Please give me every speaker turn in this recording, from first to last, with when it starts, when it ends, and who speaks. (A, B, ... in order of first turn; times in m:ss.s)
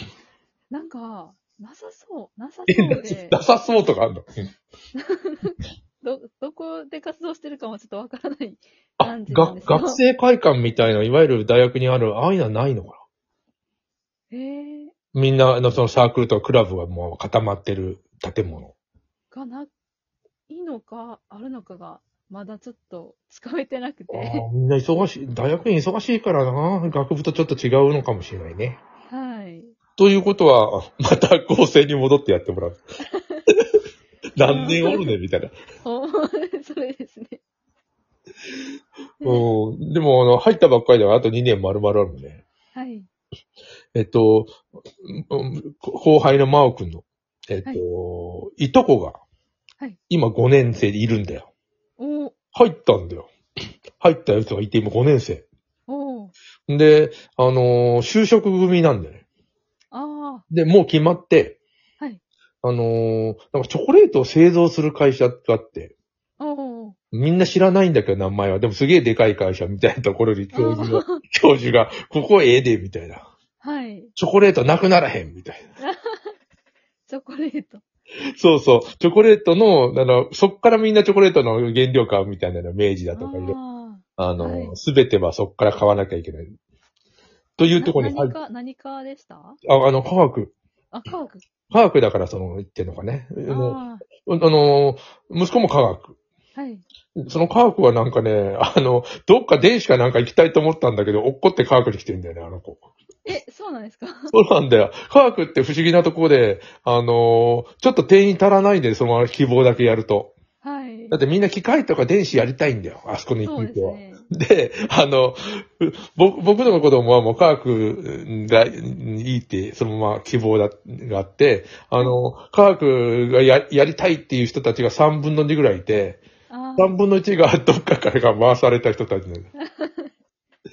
0:00.7-0:03.4 A
0:02.7-0:04.2 B
0:05.0-0:10.0 A
0:09.0-0:13.0 B
0:14.3-0:14.9 A
0:15.1-0:18.7 B
0:19.3-0:19.7 A
0:20.5-0:24.5 A
0:24.1-0:28.8 B
0:29.1-0:29.8 A
0:30.0-0:32.8 B
0:33.1-0:33.4 A
0:34.4-0:35.5 B
0:34.5-0:35.1 A
0:35.8-0:37.4 A
0:39.2-0:39.5 A
0:39.2-0:42.4 B
0:42.7-0:43.1 A
0:44.0-0:49.2 B
0:50.1-0:51.5 B
0:52.0-0:52.4 A
0:52.5-0:53.3 B
0:54.0-0:55.5 B
0:55.9-0:56.3 A
0:56.7-0:59.2 B
0:59.9-1:00.4 A
1:00.5-1:01.6 B
1:02.6-1:06.0 B
1:06.4-1:07.0 A
1:07.1-1:13.3 B
1:10.5-1:11.2 A
1:13.6-1:14.1 A
1:14.2-1:15.6 B
1:15.8-1:16.3 A
1:17.1-1:17.8 A
1:18.4-1:23.6 B
1:23.1-1:24.8 A
1:24.2-1:26.5 B
1:27.6-1:28.4 B
1:27.7-1:29.6 A
1:29.6-1:30.5 B
1:30.9-1:31.4 A
1:31.7-1:36.2 B
1:33.5-1:34.0 A
1:36.6-1:36.8 A
1:37.2-1:42.9 B
1:43.2-1:44.4 A
1:44.3-1:50.4 B
1:50.6-1:51.2 A
1:51.1-2:06.2 B
1:53.4-1:54.3 A
2:06.5-2:07.0 A
2:06.8-2:09.5 B
2:09.6-2:10.1 A